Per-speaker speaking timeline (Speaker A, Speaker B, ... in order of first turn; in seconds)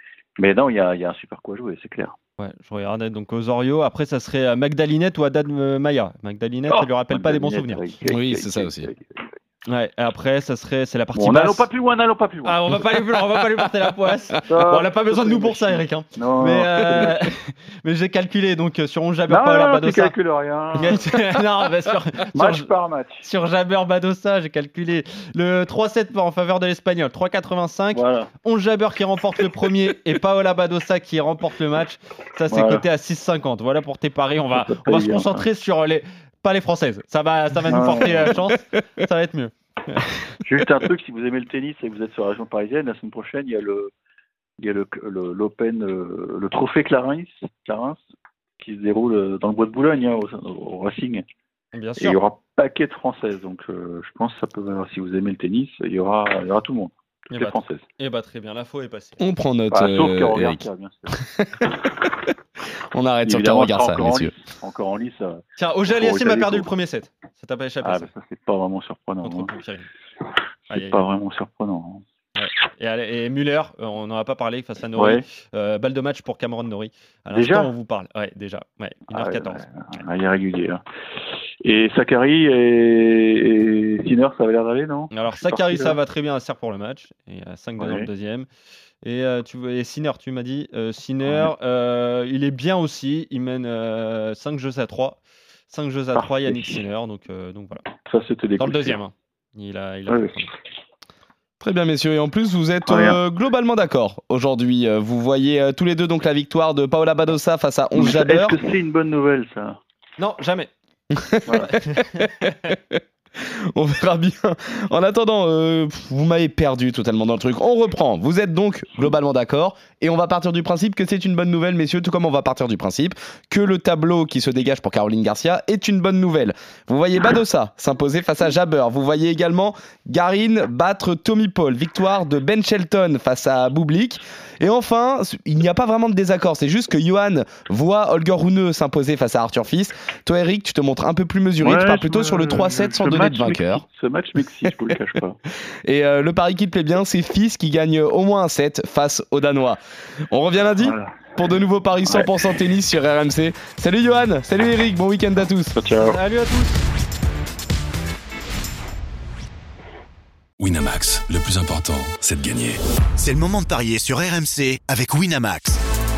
Speaker A: 0.4-2.2, 6.7-9.3, 11.2-12.6, 14.5-17.3, 19.3-21.0, 22.3-23.2, 27.9-28.3, 32.5-32.9, 34.5-35.5, 37.7-38.4, 40.4-43.9, 44.6-48.0, 48.6-51.2, 52.0-57.8, 59.7-61.2, 63.2-66.7, 67.8-69.5, 70.7-72.0, 75.0-75.2, 77.3-77.7, 79.1-80.8, 81.6-86.0, 87.8-88.1, 91.2-91.5, 96.2-96.8, 98.0-99.0, 100.1-100.5, 102.9-103.2, 108.0-109.8, 141.6-145.4, 150.8-151.3, 152.1-152.3, 155.8-156.2
Speaker B: 2.4-7.8, 9.7-11.7, 12.4-20.1, 20.8-22.7, 23.2-40.4, 51.7-52.2, 57.3-59.2, 65.6-68.1, 69.2-69.9, 70.7-71.0, 72.4-79.7, 85.1-88.5, 89.0-95.2, 95.7-97.9, 98.6-100.5, 110.2-110.7, 111.5-112.2, 156.0-156.8
Speaker C: 8.1-8.9, 59.2-60.6, 61.2-62.1, 62.9-64.3, 101.6-108.6, 111.1-143.8, 145.8-155.8
Speaker D: 160.6-162.8
Speaker E: 163.2-165.8